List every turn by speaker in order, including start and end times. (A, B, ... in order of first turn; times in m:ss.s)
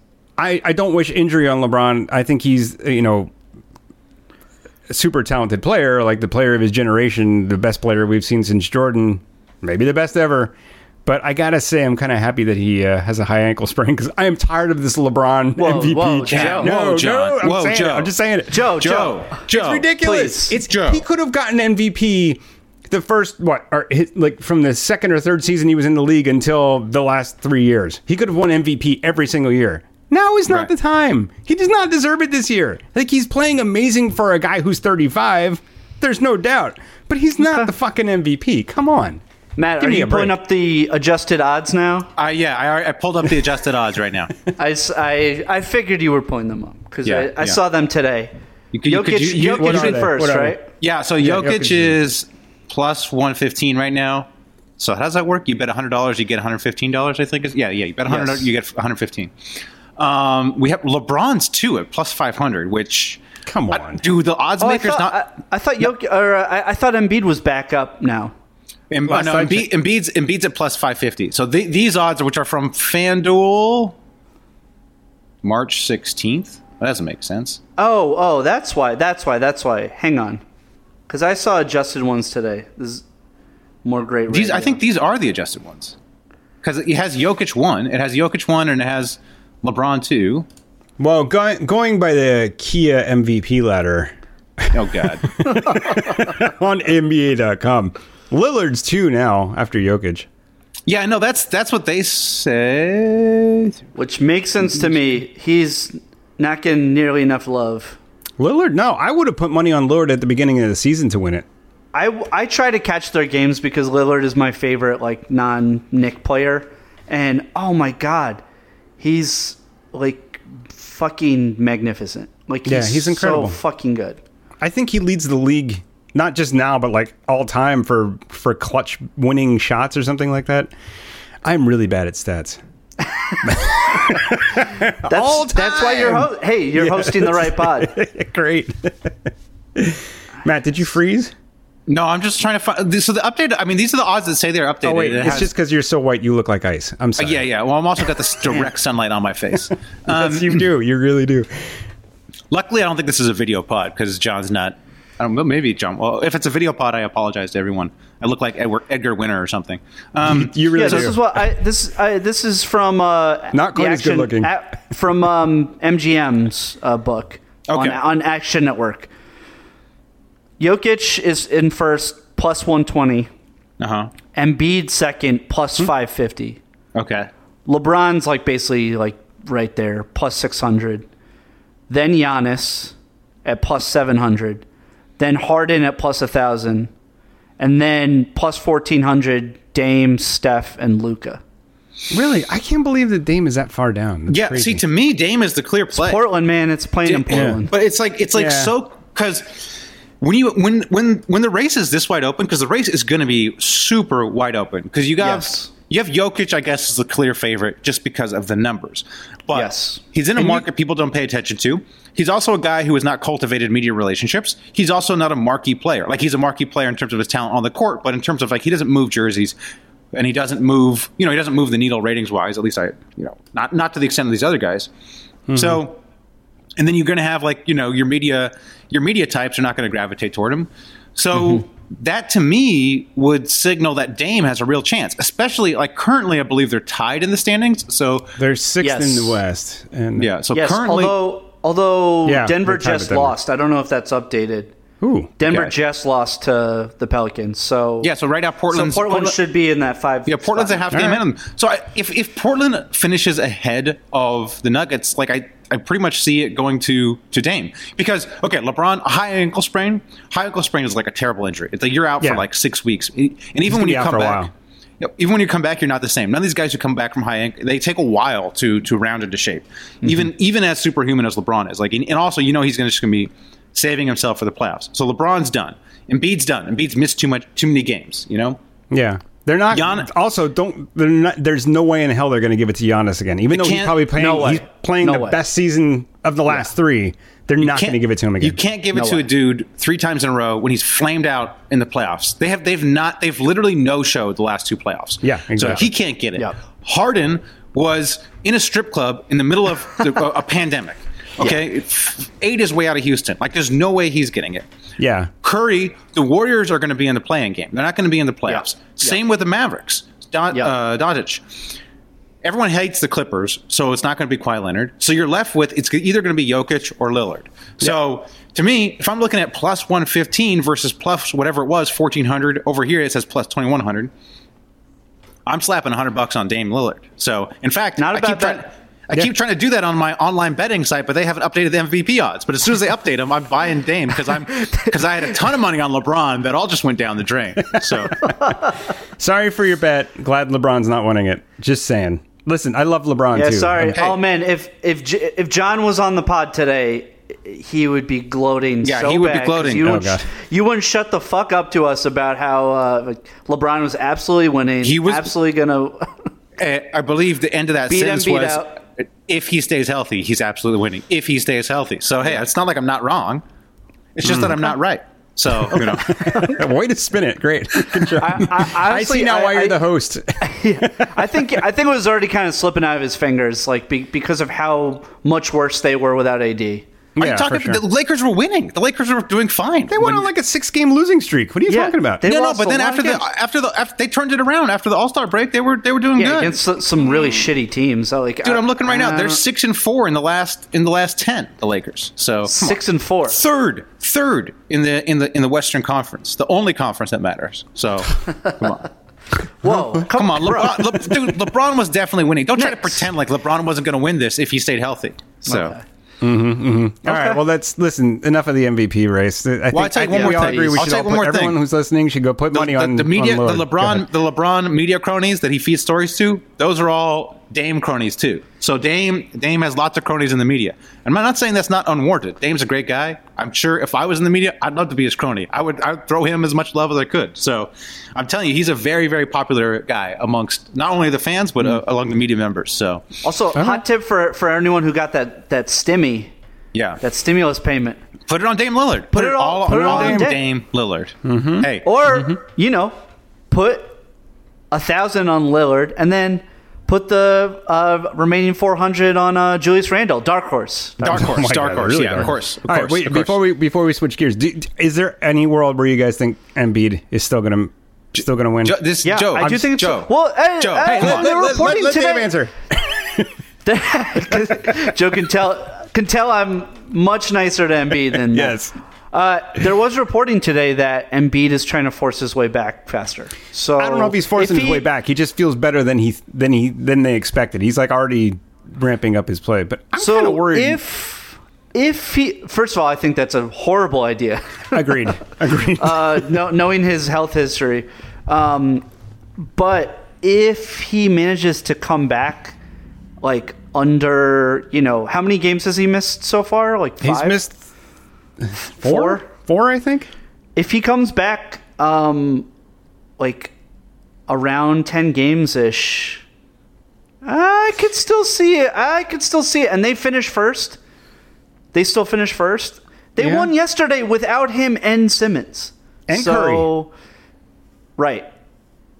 0:00.4-0:03.3 A
0:04.9-0:10.5 A
0:11.0-0:18.7 A
0:15.6-0:16.7 B
0:16.3-0:19.9 C
0:18.5-0:19.3 B
0:19.5-0:39.2 A
0:20.0-0:20.5 B
0:20.5-0:21.0 C
0:39.6-0:42.1 B
0:39.8-0:40.4 A
0:42.2-0:44.3 C
0:44.6-0:48.3 B
0:47.0-0:47.6 C
0:48.7-0:50.0 C
0:48.8-0:50.6 B
0:49.4-0:50.6 A
0:50.8-0:59.3 C
0:51.2-0:52.0 A
0:58.1-0:58.4 B
1:00.0-1:05.2 C
1:03.4-1:04.0 A
1:04.6-1:08.3 B
1:08.9-1:14.0 C
1:09.1-1:09.7 A
1:15.4-1:17.6 C
1:17.8-1:20.4 B
1:21.1-1:23.0 B
1:23.8-1:24.8 B
1:24.3-1:26.0 C
1:26.6-1:30.4 C
1:31.0-1:40.3 A
1:34.7-1:35.4 C
1:40.9-1:43.8 C
1:43.9-1:48.0 B
1:48.4-1:51.4 A
1:51.9-1:58.4 B
1:59.0-2:04.2 B
2:02.6-2:03.6 A
2:04.6-2:10.7 A
2:11.4-2:12.6 A
2:13.4-2:21.3 A
2:15.1-2:17.9 B
2:21.9-2:25.5 C
2:24.8-2:27.5 A
2:27.2-2:30.6 C
2:30.1-2:31.5 A
2:32.5-2:41.1 C
2:40.2-2:41.2 A
2:40.7-2:49.1 B
2:43.5-2:44.5 A
2:47.7-2:48.0 C
2:50.6-2:53.3 B
2:53.8-2:54.1 C
2:54.3-2:56.6 B
2:56.9-2:57.3 C
2:57.6-3:01.1 B
3:01.9-3:04.6 B
3:05.2-3:06.9 B
3:07.6-3:11.4 B
3:12.1-3:14.8 A
3:14.3-3:16.2 C
3:15.9-3:17.7 B
3:17.0-3:39.5 C
3:17.3-3:17.6 A
3:18.3-3:18.7 A
3:25.2-3:25.7 B
3:29.5-3:30.6 B
3:40.1-3:44.9 C
3:45.5-3:46.0 C
3:45.5-3:45.8 A
3:46.8-3:58.4 C
3:58.4-4:00.3 A
3:58.8-3:59.4 B
4:00.2-4:01.2 C
4:00.5-4:04.7 B
4:02.2-4:03.4 A
4:05.0-4:05.3 A
4:05.4-4:08.1 B
4:05.4-4:05.7 C
4:08.0-4:09.4 C
4:08.7-4:11.0 B
4:10.3-4:24.5 C
4:10.9-4:11.2 A
4:23.7-4:24.5 A
4:25.0-4:38.6 C
4:38.9-4:48.6 A
4:39.7-4:40.1 C
4:43.5-4:44.0 C
4:44.1-4:45.4 B
4:47.6-5:04.7 C
4:48.9-4:49.2 B
4:55.2-4:55.9 A
5:05.0-5:05.3 A
5:05.4-5:11.4 C
5:08.5-5:09.2 B
5:12.4-5:24.1 C
5:25.4-5:38.3 C
5:28.0-5:28.6 B
5:39.2-5:44.0 A
5:43.3-5:56.3 B
5:43.9-5:44.2 C
5:48.8-5:49.9 C
5:49.8-5:50.2 A
5:54.8-5:55.3 C
5:56.6-6:03.4 C
5:57.9-5:58.7 B
6:04.2-6:06.1 C
6:04.2-6:04.6 A
6:05.7-6:11.6 A
6:06.1-6:06.6 B
6:08.2-6:09.8 B
6:10.4-6:16.8 B
6:17.2-6:17.8 A
6:17.2-6:20.3 C
6:19.9-6:22.2 A
6:21.7-6:23.2 B
6:22.2-6:26.6 C
6:26.2-6:29.4 B
6:28.4-6:38.9 C
6:32.4-6:33.4 B
6:39.6-6:41.0 B
6:40.1-6:45.7 C
6:42.6-6:43.1 B
6:45.4-6:45.8 B
6:46.2-6:54.1 A
6:47.0-6:47.4 B
6:49.7-6:51.6 C
6:50.1-6:50.8 B
6:52.5-7:13.0 C
7:13.2-7:16.3 B
7:13.6-7:13.8 A
7:16.7-7:17.0 C
7:17.0-7:18.0 B
7:18.3-7:21.9 C
7:19.1-7:20.4 B
7:19.7-7:20.3 A
7:21.2-7:21.7 A
7:21.8-7:23.0 B
7:23.5-7:24.0 B
7:24.7-7:31.2 B
7:31.0-7:33.4 C
7:31.0-7:38.8 A
7:38.6-7:41.7 C
7:39.0-7:42.3 B
7:40.8-7:43.3 A
7:43.6-7:48.6 B
7:48.3-7:48.7 A
7:49.1-7:54.8 B
7:53.8-8:00.8 A
8:00.0-8:08.8 B
8:04.7-8:06.3 A
8:09.4-8:12.6 B
8:13.2-8:17.4 B
8:17.0-8:17.6 A
8:18.4-8:20.1 A
8:18.7-8:19.2 B
8:20.6-8:22.5 B
8:23.2-8:23.5 B
8:24.3-8:26.2 B
8:27.2-8:30.8 B
8:31.7-8:36.9 B
8:33.2-8:33.5 A
8:36.1-8:36.7 A
8:38.0-8:38.3 B